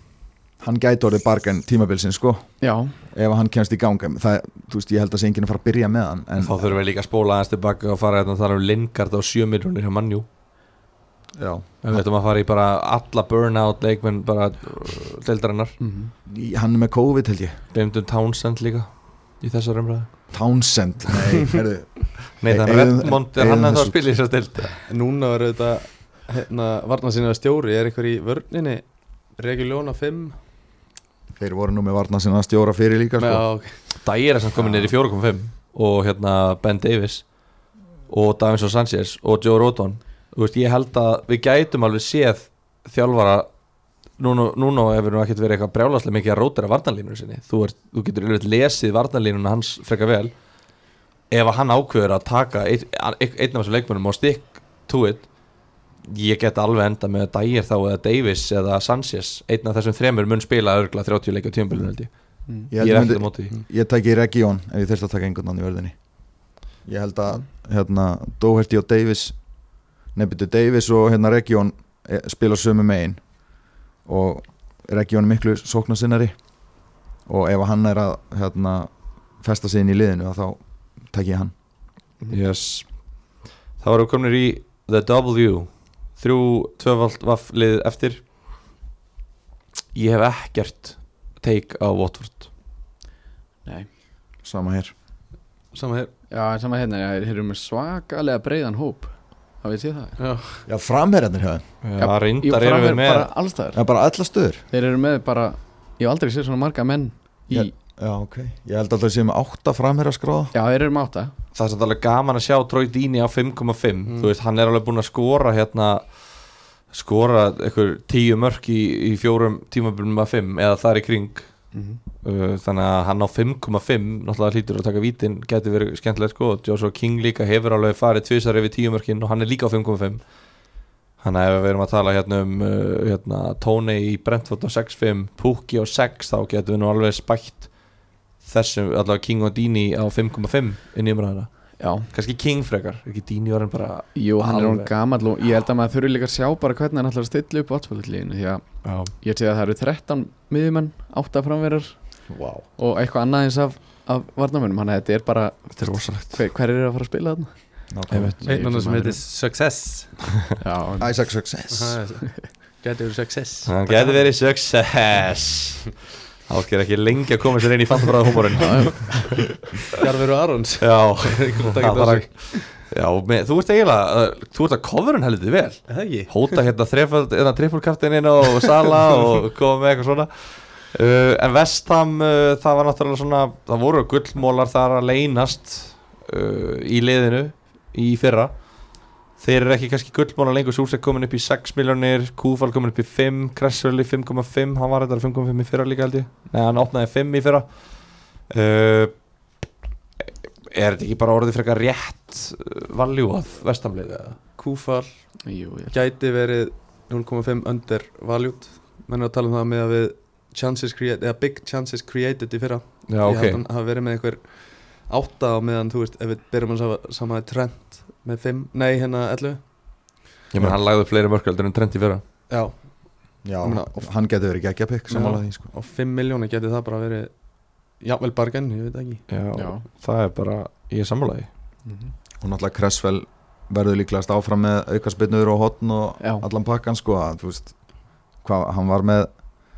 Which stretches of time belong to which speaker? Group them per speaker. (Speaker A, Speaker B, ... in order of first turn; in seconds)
Speaker A: 0.6-2.5, 3.1-6.7, 11.4-12.0, 16.2-17.6, 20.3-24.0, 31.4-33.4, 62.7-65.9, 66.8-69.4, 70.1-73.2, 74.0-76.3, 77.2-81.5, 94.4-94.9, 100.7-101.6, 103.7-104.6, 107.5-110.5, 152.3-152.6, 157.9-158.3, 161.0-162.0, 223.4-225.7, 232.4-237.7, 238.4-239.3
Speaker B: 2.6-2.9, 15.8-16.1, 96.3-100.2, 102.0-103.8, 104.7-107.7, 110.5-111.3, 121.7-122.0, 141.8-142.1, 144.2-152.0, 152.8-157.7, 158.4-159.2, 160.6-161.1, 168.6-169.1, 205.4-205.9, 229.5-229.8, 231.8-232.1, 236.2-236.4
Speaker C: 6.4-10.2, 11.8-15.7, 17.7-20.1, 22.4-24.8, 34.0-37.2, 38.1-43.5, 44.2-50.3, 51.3-55.3, 56.0-62.1, 62.7-63.5, 82.3-82.9, 83.8-88.2, 89.9-92.5, 101.8-103.3, 111.5-116.1, 116.9-121.5, 122.2-130.2, 131.2-137.7, 138.4-141.5, 142.1-144.9, 148.8-149.1, 155.8-156.4, 158.1-158.4, 163.7-165.9, 166.4-169.4, 170.8-188.6, 189.4-197.7, 198.5-199.1, 200.2-204.4, 213.1-213.6, 220.5-222.2, 229.3-231.5
Speaker D: 24.9-30.4, 33.2-33.7, 95.7-96.1, 100.2-100.6, 114.0-114.3, 158.4-160.1, 161.7-164.2, 169.9-172.6, 175.9-176.5, 204.6-205.3, 205.9-219.6, 222.5-222.9, 223.6-224.1, 225.1-227.3, 228.0-229.2